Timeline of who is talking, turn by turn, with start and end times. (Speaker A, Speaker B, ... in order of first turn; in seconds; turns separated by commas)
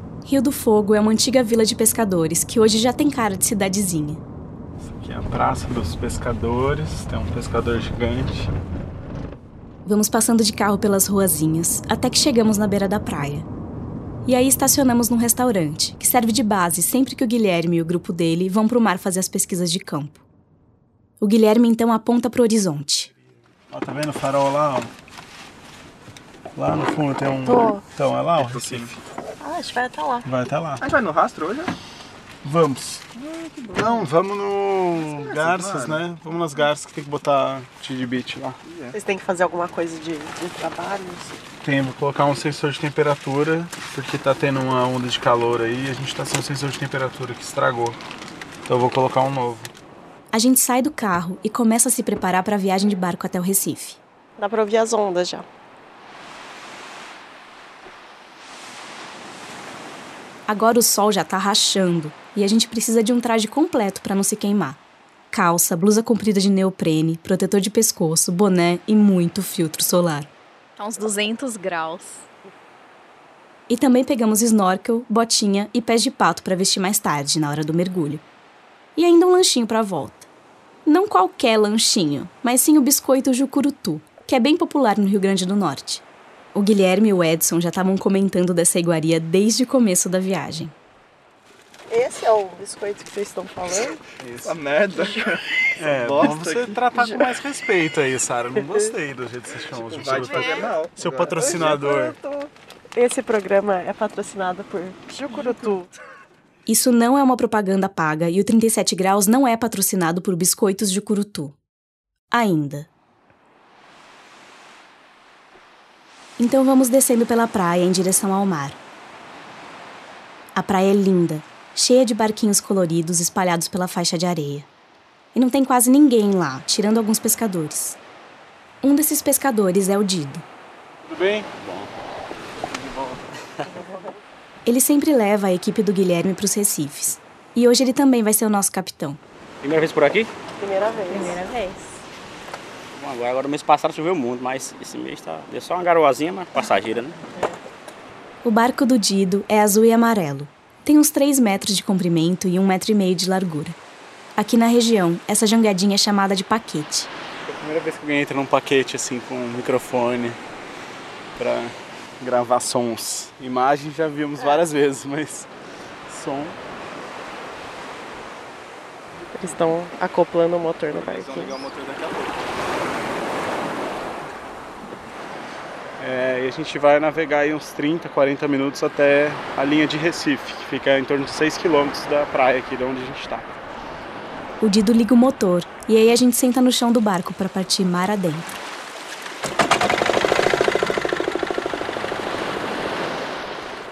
Speaker A: 0.2-4.2, Speaker B: 4.8-8.5, Speaker A: 9.8-13.5, Speaker A: 14.2-20.2, Speaker A: 21.2-23.1, Speaker B: 23.7-24.9, Speaker B: 26.5-29.0, Speaker C: 27.4-27.8, Speaker D: 28.4-28.9, Speaker C: 29.4-30.3, Speaker B: 30.2-30.9, Speaker D: 30.8-31.7, Speaker B: 32.4-33.0, Speaker C: 33.2-34.0, Speaker B: 33.8-38.6, Speaker D: 35.2-36.0, Speaker D: 38.7-38.9, Speaker C: 38.9-41.3, Speaker B: 41.6-48.0, Speaker B: 48.6-49.7, Speaker A: 50.3-54.0, Speaker C: 54.4-55.5, Speaker A: 60.5-64.8, Speaker A: 65.3-70.3, Speaker E: 70.8-72.3, Speaker A: 73.7-78.2, Speaker A: 79.0-80.3, Speaker A: 80.8-90.7, Speaker C: 91.9-94.0, Speaker B: 94.2-94.6, Speaker D: 94.4-96.8, Speaker B: 95.8-102.2, Speaker D: 99.7-101.8, Speaker C: 101.6-105.9, Speaker A: 106.7-111.5, Speaker A: 112.3-112.9, Speaker A: 116.4-118.8, Speaker A: 120.5-124.7, Speaker A: 125.3-128.0, Speaker A: 128.8-130.4, Speaker B: 131.0-131.5, Speaker F: 131.6-131.9, Speaker A: 134.7-139.2, Speaker F: 139.6-140.3, Speaker C: 140.6-141.4, Speaker E: 141.1-141.9, Speaker F: 142.9-147.2, Speaker A: 148.4-153.8, Speaker A: 154.4-157.1, Speaker B: 157.4-160.4, Speaker B: 161.4-165.5, Speaker B: 166.1-166.6, Speaker C: 169.3-171.6, Speaker D: 171.0-172.4, Speaker B: 176.0-183.5, Speaker A: 184.6-188.5